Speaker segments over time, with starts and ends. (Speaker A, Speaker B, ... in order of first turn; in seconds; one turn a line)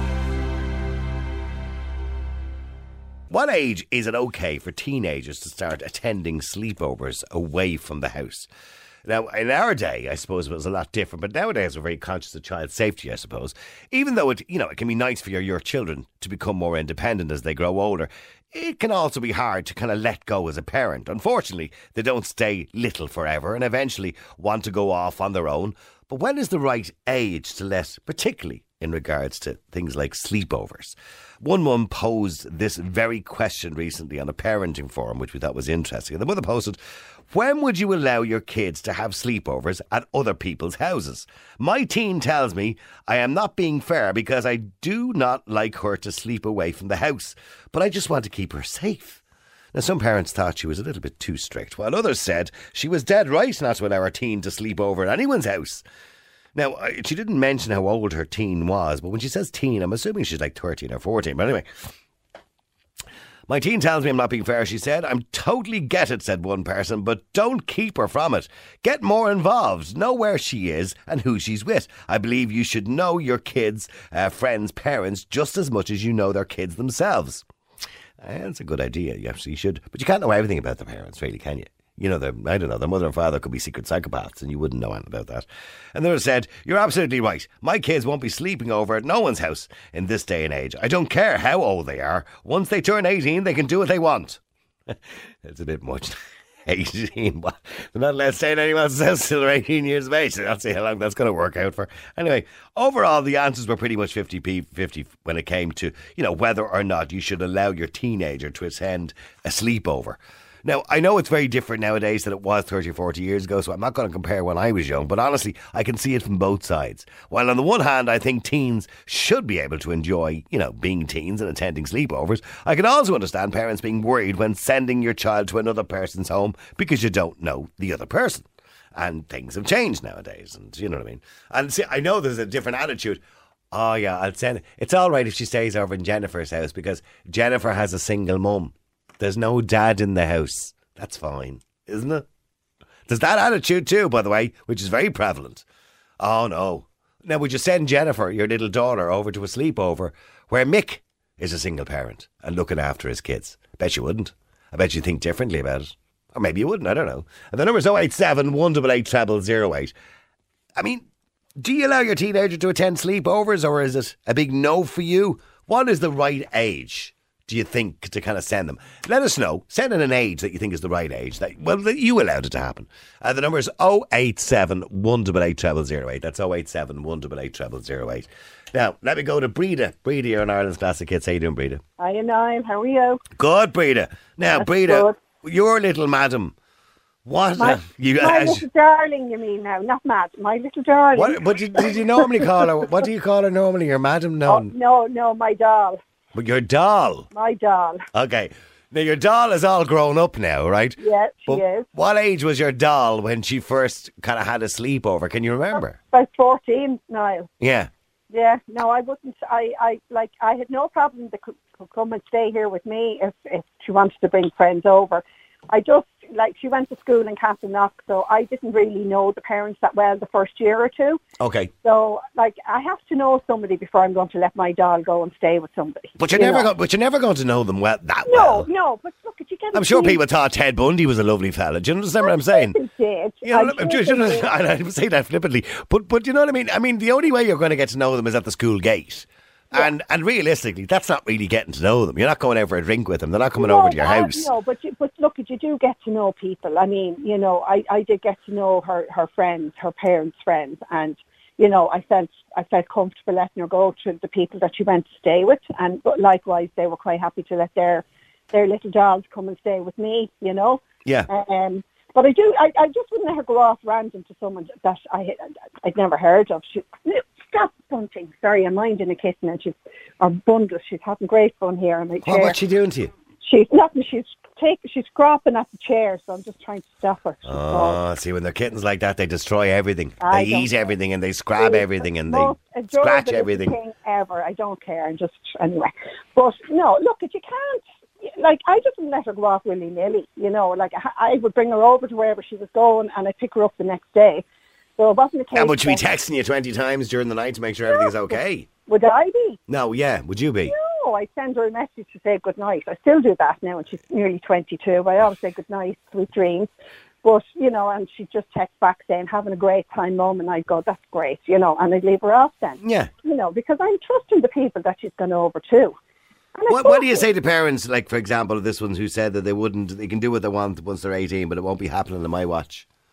Speaker A: 3.3-8.5
Speaker A: 9.1-36.8
Speaker A: 37.3-49.2
Speaker A: 49.7-55.9
Speaker A: 56.5-61.7
Speaker A: 63.5-77.5
Speaker A: 78.2-94.4
Speaker A: 94.9-142.2
Speaker A: 143.1-145.7
Speaker A: 146.2-159.9
Speaker A: 160.8-161.1
Speaker A: 161.6-181.8
Speaker B: 182.0-183.2
Speaker A: 183.4-186.6
Speaker B: 184.6-185.2
Speaker A: 187.2-188.7
Speaker B: 187.6-192.5
Speaker A: 191.2-194.7
Speaker B: 194.5-196.0
Speaker A: 196.3-197.3
Speaker B: 197.3-198.0
Speaker A: 198.1-206.0
Speaker B: 201.0-201.9
Speaker B: 206.1-207.5
Speaker A: 207.6-207.9
Speaker B: 208.3-221.2
Speaker A: 221.4-221.7
Speaker B: 221.8-226.7
Speaker A: 226.2-228.7
Speaker B: 228.3-230.2
Speaker A: 229.7-232.8
Speaker B: 232.2-234.5
Speaker A: 233.4-244.5
Speaker B: 243.6-272.6
Speaker A: 272.2-273.1
Speaker B: 273.4-278.0
Speaker A: 277.5-283.8
Speaker B: 280.2-280.7
Speaker B: 281.6-294.4
Speaker B: 295.0-296.1
Speaker A: 295.5-298.7
Speaker B: 297.9-299.6
Speaker A: 299.7-300.7
Speaker B: 300.7-306.7
Speaker B: 307.2-316.0
Speaker A: 312.8-313.1
Speaker B: 316.6-317.3
Speaker A: 316.7-322.9